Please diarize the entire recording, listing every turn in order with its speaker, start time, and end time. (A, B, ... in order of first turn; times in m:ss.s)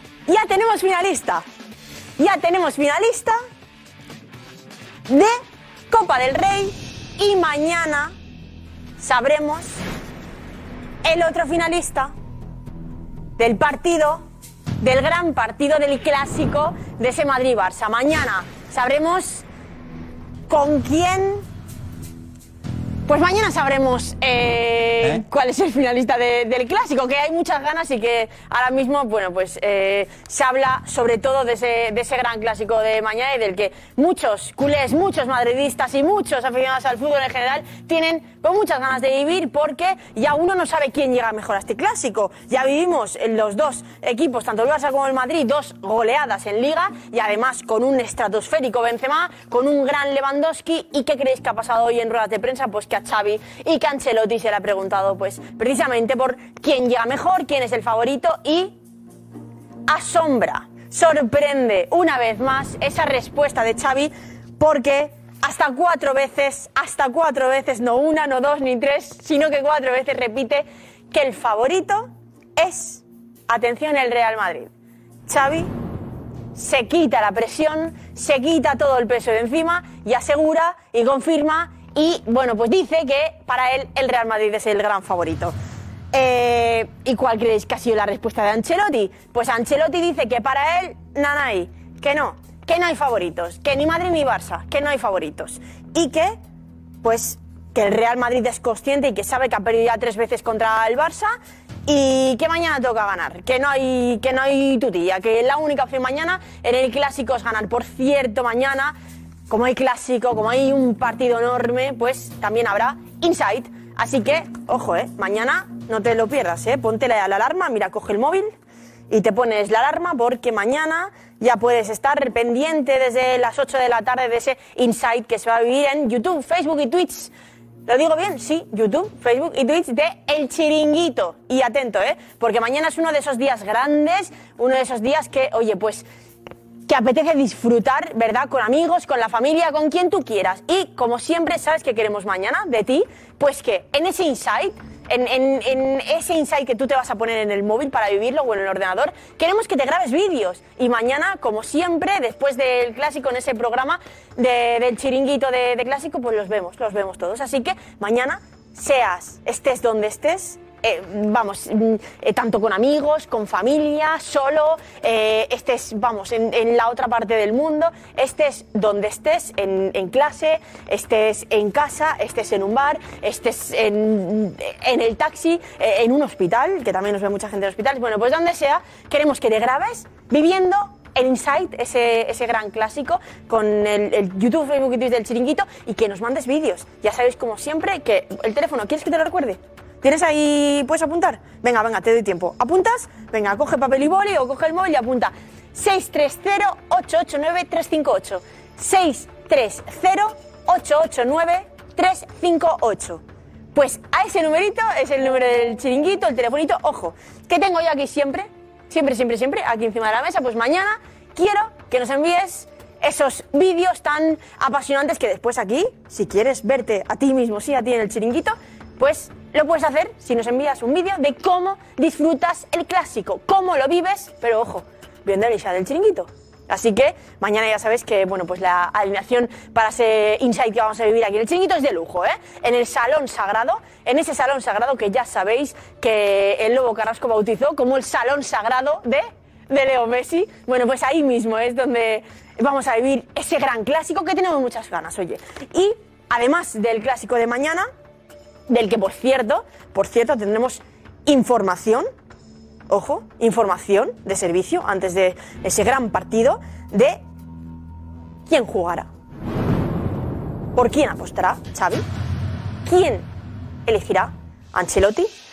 0:00.3-0:01.4 A
0:02.2-0:03.4 A
0:05.1-0:08.1 A
0:09.0-0:09.8 A
0:11.0-0:12.1 A
0:13.4-0:14.2 A
0:14.8-0:19.4 A
0:20.5-0:21.4 A
0:23.1-0:58.8 A
0:59.9-1:14.7 A
1:15.3-1:15.7 A
1:16.6-1:25.6 A
1:26.1-1:36.4 A
1:37.0-1:41.3 A
1:41.9-1:49.0 A
1:49.5-1:58.5 A
1:59.1-2:07.3 A
2:07.9-2:16.1 A
2:16.9-3:23.2 A
3:23.7-4:07.9 A
4:08.7-4:12.1 A
4:12.9-4:17.2 A
4:18.5-4:19.1 A
4:20.8-4:22.0 A
4:22.8-4:23.3 A
4:23.9-4:25.3 A